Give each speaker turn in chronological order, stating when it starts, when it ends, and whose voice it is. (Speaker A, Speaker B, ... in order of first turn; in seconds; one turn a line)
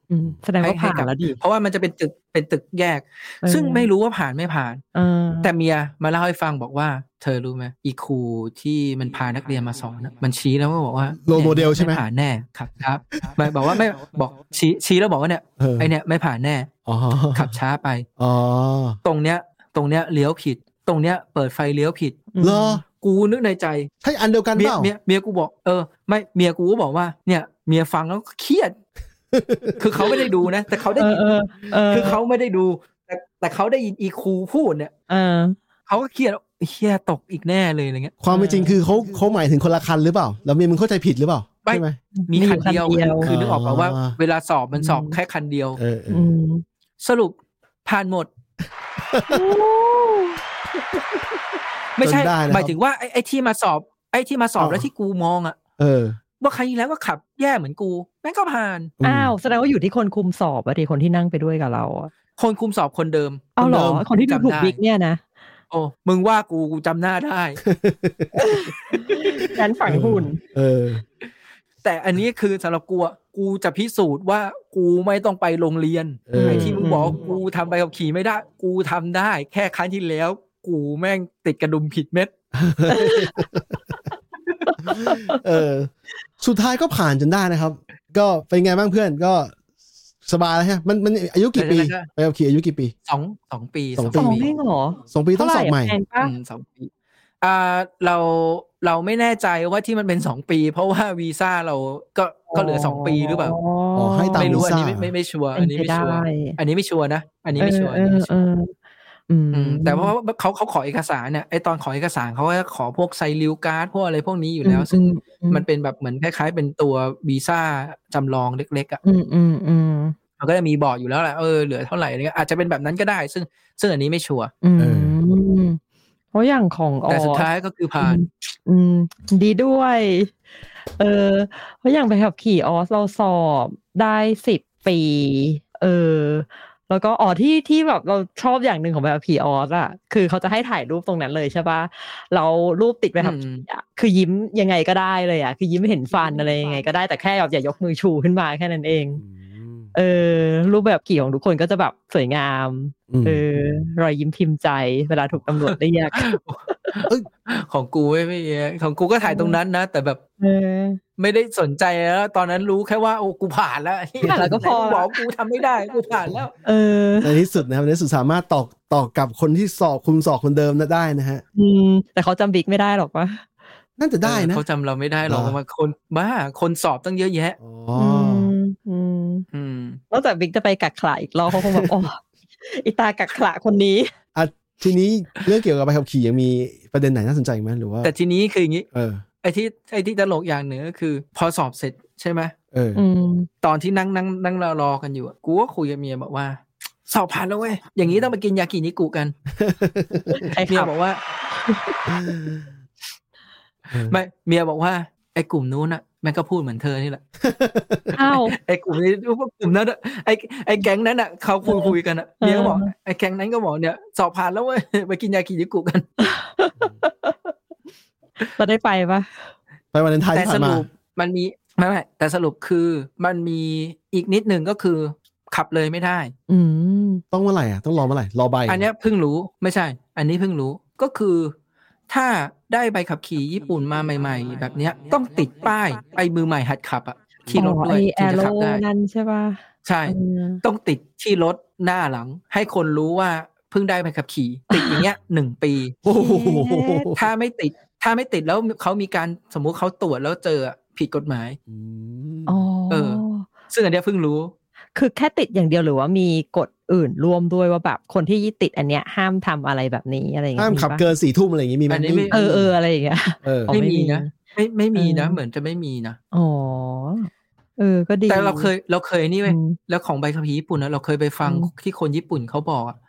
Speaker A: 0.1-1.4
Speaker B: 0.6-4.8
Speaker A: 3.4-3.9
Speaker A: 4.9-5.5
Speaker B: 5.4-16.7
Speaker C: 11.2-12.0
Speaker C: 13.4-13.8
Speaker C: 15.6-15.9
Speaker C: 16.9-17.5
Speaker B: 17.3-18.1
Speaker C: 18.2-19.0
Speaker B: 19.0-22.2
Speaker A: 22.3-22.8
Speaker C: 22.4-22.8
Speaker B: 22.9-23.9
Speaker C: 24.0-24.9
Speaker B: 24.6-28.7
Speaker C: 29.3-29.8
Speaker B: 29.8-34.9
Speaker A: 31.0-32.2
Speaker A: 35.1-35.6
Speaker B: 35.9-38.2
Speaker C: 38.2-42.0
Speaker A: 38.3-38.8
Speaker B: 41.6-45.8
Speaker A: 42.2-43.3
Speaker C: 43.2-44.1
Speaker A: 44.8-45.1
Speaker C: 45.8-46.3
Speaker A: 46.1-46.6
Speaker B: 47.0-48.3
Speaker C: 49.1-49.5
Speaker A: 49.3-50.4
Speaker B: 52.0-55.6
Speaker C: 52.0-52.8
Speaker C: 54.6-54.9
Speaker C: 55.8-56.2
Speaker B: 56.4-58.9
Speaker C: 59.0-59.3
Speaker A: 59.0-62.1
Speaker B: 62.4-64.8
Speaker A: 63.6-65.2
Speaker C: 63.6-64.0
Speaker B: 65.7-67.6
Speaker C: 67.6-68.3
Speaker A: 68.3-70.4
Speaker C: 69.8-71.0
Speaker B: 71.8-82.3
Speaker C: 76.3-77.0
Speaker A: 76.3-77.2
Speaker C: 82.5-83.8
Speaker A: 82.9-83.4
Speaker A: 84.8-85.4
Speaker C: 84.8-89.5
Speaker C: 90.2-92.9
Speaker B: 91.5-92.1
Speaker B: 93.1-94.5
Speaker C: 94.0-94.4
Speaker A: 94.1-96.3
Speaker C: 95.1-96.0
Speaker B: 96.2-96.9
Speaker B: 97.4-103.6
Speaker A: 102.5-104.6
Speaker C: 103.9-105.1
Speaker B: 104.3-108.3
Speaker A: 105.5-106.6
Speaker A: 107.6-108.7
Speaker A: 109.3-110.1
Speaker B: 109.5-119.0
Speaker A: 114.6-115.6
Speaker A: 119.0-120.1
Speaker B: 120.4-124.5
Speaker A: 124.6-125.8
Speaker C: 124.8-125.2
Speaker A: 126.3-127.5
Speaker B: 127.1-128.2
Speaker A: 128.0-130.3
Speaker A: 131.0-149.2
Speaker B: 143.2-143.7
Speaker C: 149.2-149.9
Speaker A: 149.9-157.0
Speaker C: 153.1-153.4
Speaker B: 155.6-160.2
Speaker A: 159.2-159.6
Speaker A: 160.4-161.0
Speaker B: 161.2-166.5
Speaker C: 164.2-164.5
Speaker A: 164.2-165.2
Speaker A: 166.6-167.4
Speaker C: 167.2-171.4
Speaker A: 171.5-173.4
Speaker C: 174.0-174.6
Speaker B: 174.2-177.6
Speaker C: 175.2-175.6
Speaker C: 177.6-178.5
Speaker A: 177.9-179.4
Speaker B: 179.5-180.0
Speaker A: 180.1-184.1
Speaker C: 181.5-181.9
Speaker C: 184.3-188.1
Speaker B: 188.0-188.8
Speaker C: 188.9-189.2
Speaker B: 189.4-192.5
Speaker C: 192.7-193.0
Speaker A: 192.9-193.5
Speaker B: 193.6-199.3
Speaker C: 199.6-200.4
Speaker A: 200.3-200.9
Speaker B: 200.7-201.2
Speaker A: 201.5-202.1
Speaker C: 202.1-202.7
Speaker C: 203.9-204.2
Speaker B: 204.0-207.2
Speaker C: 207.4-208.1
Speaker A: 208.1-208.6
Speaker B: 208.3-216.1
Speaker A: 211.6-212.9
Speaker A: 216.2-217.5
Speaker A: 218.4-219.5
Speaker C: 219.9-220.8
Speaker B: 220.3-226.3
Speaker A: 226.5-227.2
Speaker C: 227.3-228.8
Speaker B: 228.7-231.5
Speaker B: 232.1-238.8
Speaker A: 237.5-240.6
Speaker B: 239.8-246.0
Speaker A: 244.7-245.1
Speaker C: 246.0-247.2
Speaker A: 246.1-247.1
Speaker B: 247.1-251.6
Speaker C: 251.7-252.6
Speaker A: 252.5-253.5
Speaker B: 252.9-254.5
Speaker A: 254.9-261.1
Speaker C: 260.6-262.7
Speaker B: 261.9-262.4
Speaker A: 262.3-264.3
Speaker C: 263.4-263.7
Speaker B: 263.7-266.2
Speaker A: 264.9-265.4
Speaker A: 266.3-268.7
Speaker B: 268.3-272.9
Speaker A: 269.5-269.8
Speaker A: 271.4-271.7